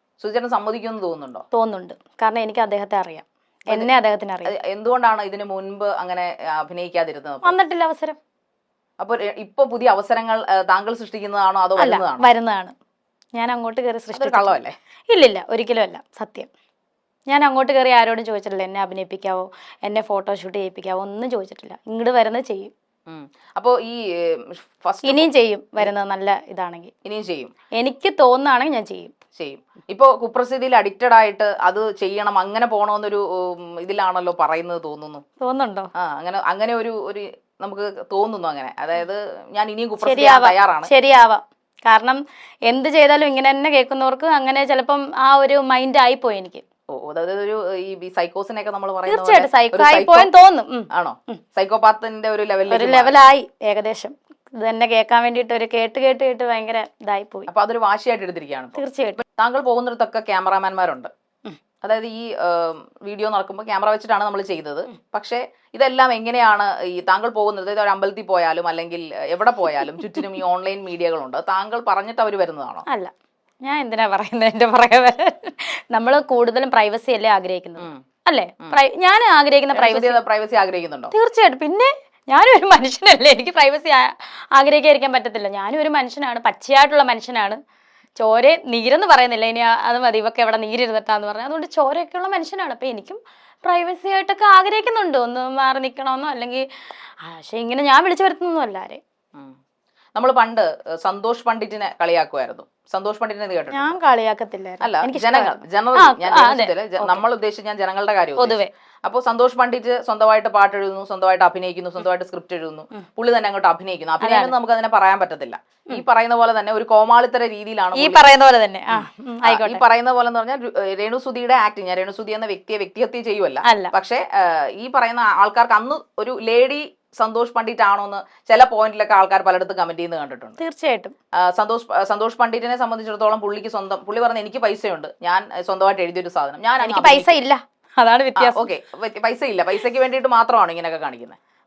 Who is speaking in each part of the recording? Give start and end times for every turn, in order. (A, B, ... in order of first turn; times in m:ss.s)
0:00.2-0:01.4 A
0:01.5-0:04.5 B
0:04.5-0:07.6 A
0:07.4-0:08.2 B
0:09.0-0:12.3 A
0:11.8-0:12.7 B
0:13.3-0:16.5 B
0:14.1-0:14.7 A
0:17.3-0:22.7 B
0:23.1-0:25.9 A
0:25.0-0:26.9 B
0:27.0-0:27.5 A
0:27.8-0:29.1 B
0:29.3-0:35.2 A
0:35.4-0:35.9 B
0:36.0-0:40.9 A
0:40.0-0:46.6 B
0:46.9-0:50.3 A
0:49.1-0:51.4 B
0:50.9-0:53.1 A
0:52.7-0:57.5 B
0:57.5-1:01.1 A
0:58.8-0:59.2 B
1:01.8-1:12.8 A
1:12.9-1:13.1 B
1:13.6-1:20.2 B
1:19.7-1:21.1 A
1:21.1-1:27.6 B
1:28.2-1:39.0 B
1:40.1-1:44.0 A
1:43.7-1:47.2 B
1:44.8-1:58.3 A
1:48.4-1:48.7 B
1:54.2-1:54.5 B
1:57.9-1:59.8 B
1:58.9-2:10.6 A
2:03.6-2:03.9 B
2:10.6-2:11.1 B
2:11.4-2:17.4 A
2:16.8-2:18.7 B
2:18.4-2:21.4 A